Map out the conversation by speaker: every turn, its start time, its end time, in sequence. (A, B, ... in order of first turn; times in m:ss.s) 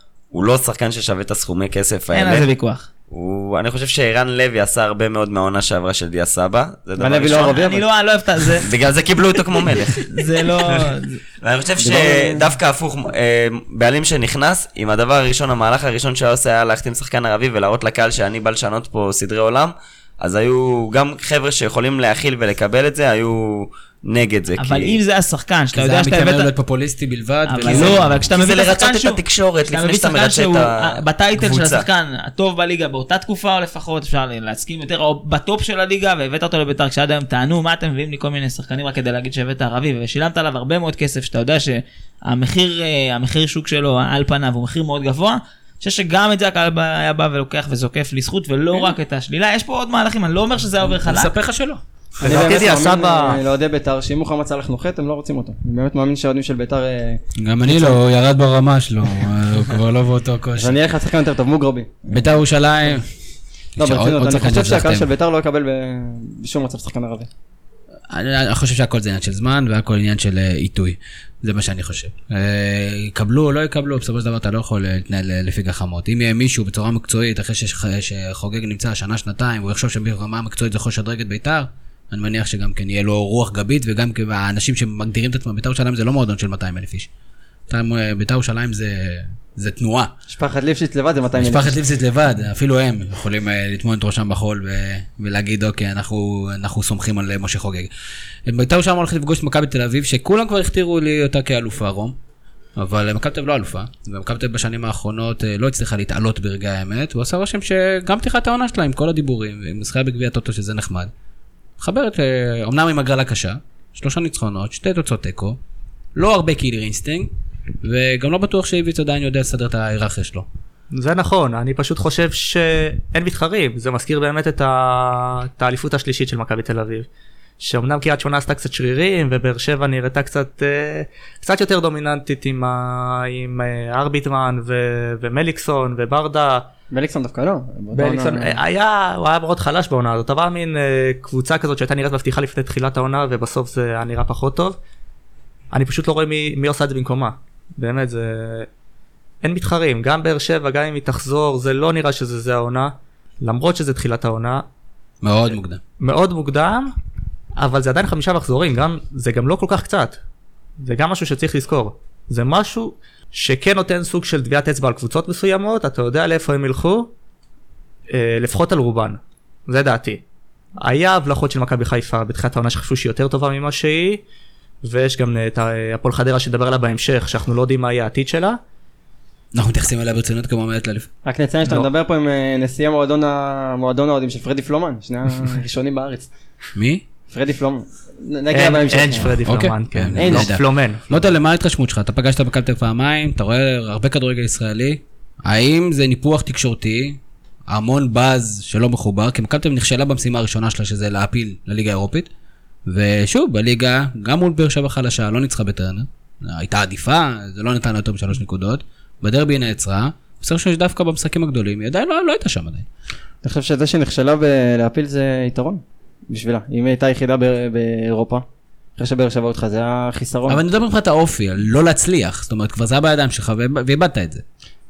0:00.3-0:02.5 A
0:02.1-0:02.9 B
0:03.1-0:07.6 A
0:07.0-0:07.8 C
0:07.2-0:08.7 B
0:08.6-0:10.1 A
0:10.1-0:11.2 B
0:11.4-0:25.0 A
0:11.8-0:12.5 C
0:24.6-0:26.5 B
0:25.7-0:28.3 D
0:27.5-0:51.3 B
0:27.7-0:31.8 A
0:51.0-0:51.8 D
0:52.2-0:53.4 E
0:52.2-0:58.0 C
0:57.4-1:00.8 D
1:00.6-1:02.3 C
1:02.1-1:03.1 D
1:03.8-1:05.1 D
1:03.8-1:07.3 C
1:08.1-1:27.1 D
1:27.7-1:30.1 D
1:30.3-1:31.8 C
1:31.4-1:37.9 D
1:38.5-1:42.2 D
1:42.8-1:51.1 D
1:51.8-1:55.6 D
1:56.2-1:57.3 D
1:57.8-2:00.5 D
2:00.9-2:07.1 E
2:07.6-2:16.7 E
2:16.9-2:18.6 C
2:17.9-2:24.8 E
2:25.7-2:28.7 E
2:29.4-2:34.6 E
2:35.2-2:35.8 D
2:36.0-2:36.9 E
2:37.6-2:40.2 E
2:40.8-2:47.1 E
2:48.1-2:50.2 E
2:50.8-2:54.2 E
2:54.8-2:58.6 E
2:59.5-3:01.1 D
3:01.2-3:06.3 C
3:06.8-3:07.0 D
3:07.3-3:09.3 C
3:08.5-3:11.3 E
3:09.4-3:17.2 D
3:10.2-3:10.5 C
3:17.7-3:22.3 D
3:22.9-3:32.9 D
3:33.4-3:38.4 C
3:39.0-3:40.6 C
3:40.5-3:44.4 D